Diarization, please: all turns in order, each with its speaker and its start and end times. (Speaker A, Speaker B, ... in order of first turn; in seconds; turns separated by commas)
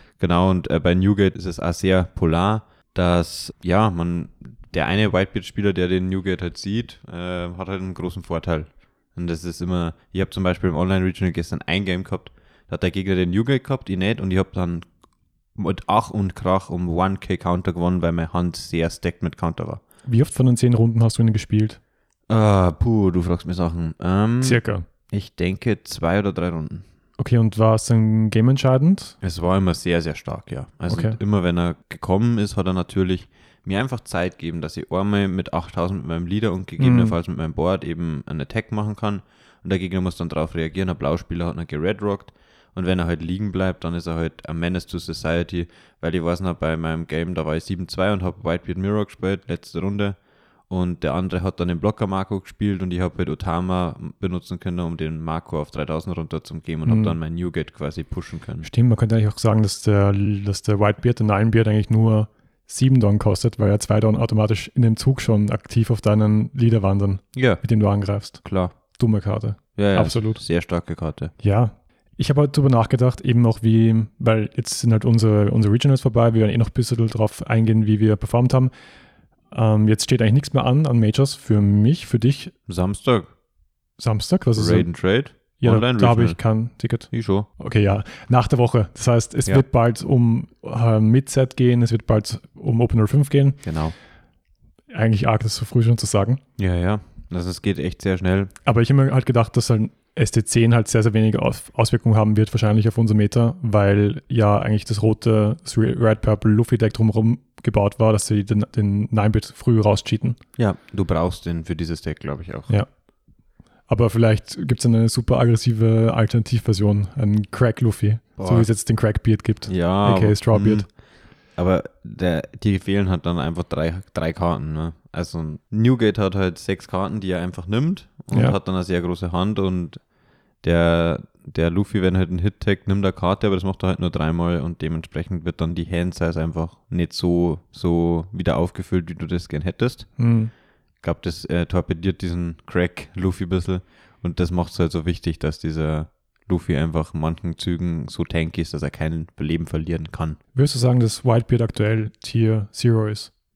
Speaker A: 0.2-14.9, Speaker A: 15.6-19.8, Speaker B: 20.1-21.8, Speaker A: 22.3-26.9, Speaker B: 24.4-24.8, Speaker B: 27.2-29.1, Speaker A: 29.2-50.2, Speaker B: 30.9-31.2, Speaker B: 36.8-37.1, Speaker A: 50.7-58.7, Speaker B: 56.9-57.1, Speaker B: 58.6-70.4, Speaker A: 67.3-67.6, Speaker A: 68.4-68.7, Speaker A: 69.8-71.3, Speaker B: 71.4-78.7, Speaker B: 79.5-82.5, Speaker A: 82.7-83.3, Speaker B: 84.0-93.7, Speaker A: 84.5-86.4, Speaker A: 87.1-87.5, Speaker A: 93.6-93.9, Speaker B: 94.9-96.4, Speaker A: 96.6-98.5, Speaker B: 98.7-110.4, Speaker A: 110.6-112.7, Speaker B: 113.9-120.8, Speaker A: 118.4-118.7, Speaker A: 119.7-130.0, Speaker B: 128.3-128.6, Speaker A: 130.6-140.2, Speaker B: 140.2-140.5, Speaker A: 141.0-150.4, Speaker B: 150.5-153.3